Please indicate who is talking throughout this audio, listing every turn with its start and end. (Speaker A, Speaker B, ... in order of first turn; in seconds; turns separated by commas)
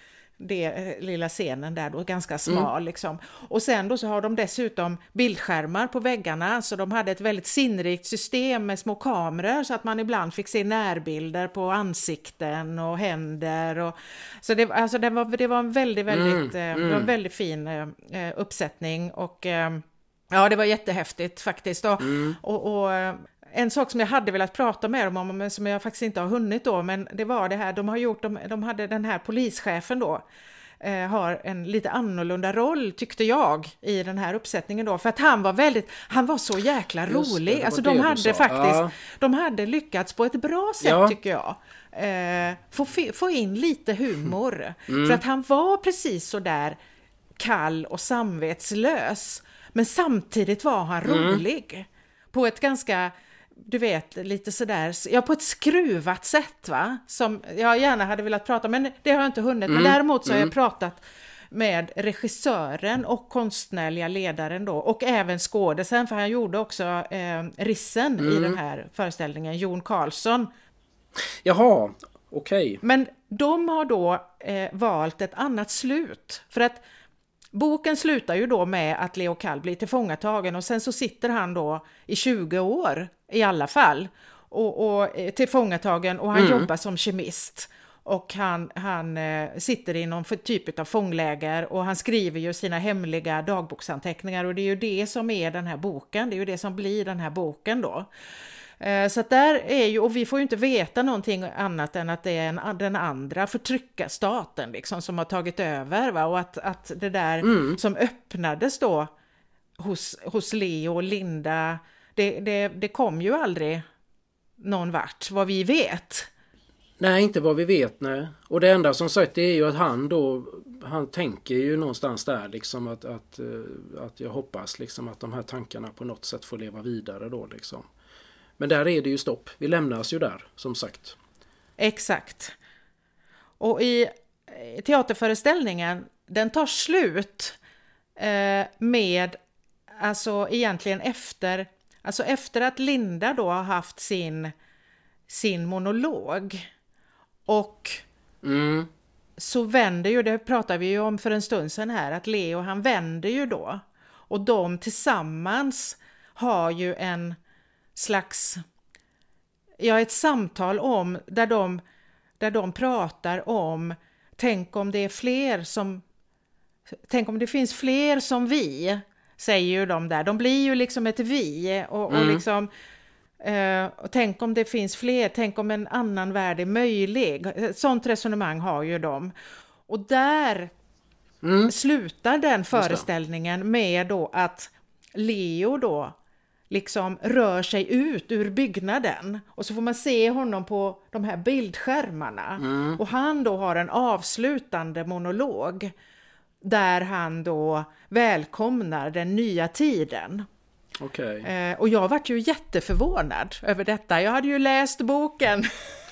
Speaker A: 0.4-30.2, Speaker B: 16.1-17.1, Speaker B: 22.0-22.4, Speaker A: 30.8-46.8, Speaker B: 37.1-38.9, Speaker B: 40.8-41.1, Speaker B: 44.9-45.2, Speaker A: 47.4-61.0, Speaker B: 51.0-51.4, Speaker B: 59.7-60.5, Speaker A: 61.5-70.5, Speaker B: 68.2-68.6, Speaker B: 71.4-72.8, Speaker A: 72.8-76.8, Speaker A: 77.5-98.1, Speaker B: 86.3-86.7, Speaker A: 98.8-109.1, Speaker B: 107.4-107.8, Speaker A: 109.8-113.8, Speaker A: 114.6-116.3, Speaker B: 117.0-127.9, Speaker B: 128.6-131.2, Speaker A: 131.8-132.5, Speaker A: 133.6-137.6, Speaker A: 138.2-139.4, Speaker A: 140.0-144.5, Speaker A: 145.3-146.7, Speaker A: 147.5-148.0, Speaker B: 148.4-148.9, Speaker A: 149.4-157.4, Speaker A: 157.9-158.6, Speaker A: 159.8-161.8, Speaker A: 162.4-166.0, Speaker A: 167.1-172.7, Speaker B: 172.1-172.4, Speaker A: 173.4-179.3, Speaker A: 179.9-180.7, Speaker B: 181.4-181.7, Speaker A: 181.7-186.1, Speaker B: 182.7-183.0, Speaker A: 186.7-195.9, Speaker B: 192.6-193.0, Speaker A: 196.6-200.5, Speaker B: 201.0-201.5, Speaker A: 201.4-206.0